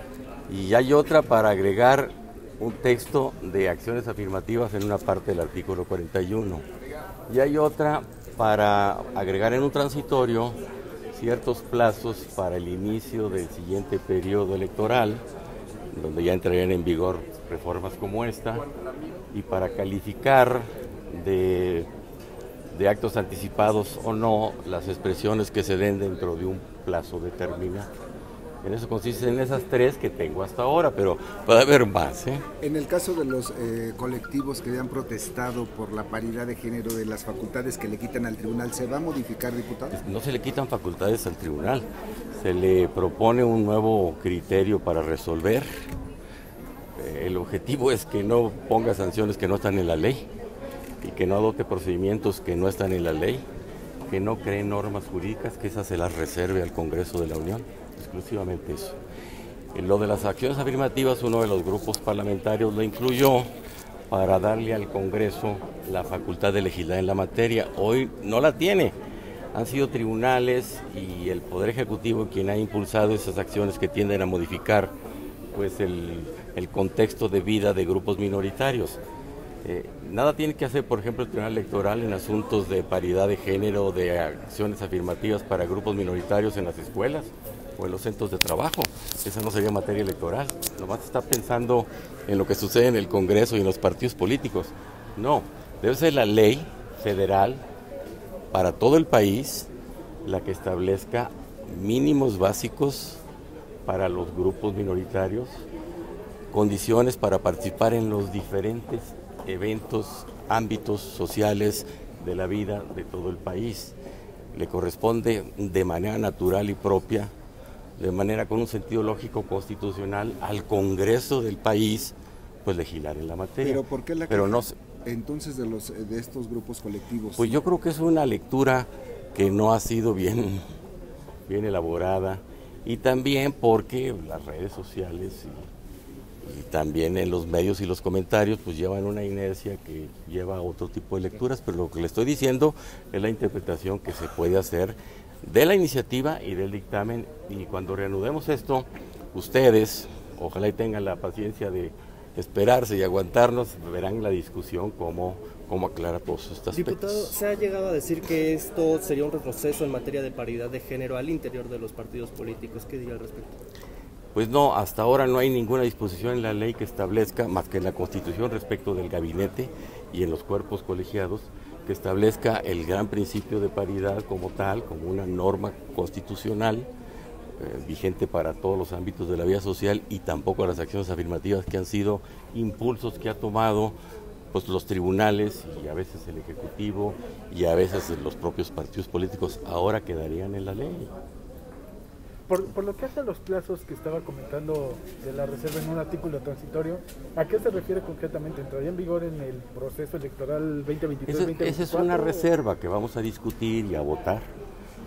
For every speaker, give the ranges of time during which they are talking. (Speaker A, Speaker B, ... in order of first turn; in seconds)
Speaker A: 0.5-6.7, 7.3-10.6, 11.1-15.2, 15.9-18.7, 19.3-21.9, 22.7-27.9, 28.6-32.4, 39.9-45.7, 47.0-50.3, 51.0-53.5, 54.1-59.0, 59.7-63.5, 64.1-69.0, 69.5-74.9, 75.5-79.0, 79.6-97.6, 98.5-99.7, 100.2-103.2, 103.9-105.7, 106.5-114.0, 114.5-117.3, 118.0-124.8, 127.4-130.6, 131.5-135.7, 136.4-157.4, 164.3-176.9, 177.6-184.0, 184.5-191.1, 201.3-204.5
Speaker B: 32.6-40.0, 123.6-127.7
Speaker C: 156.7-163.5
Speaker D: 192.5-202.5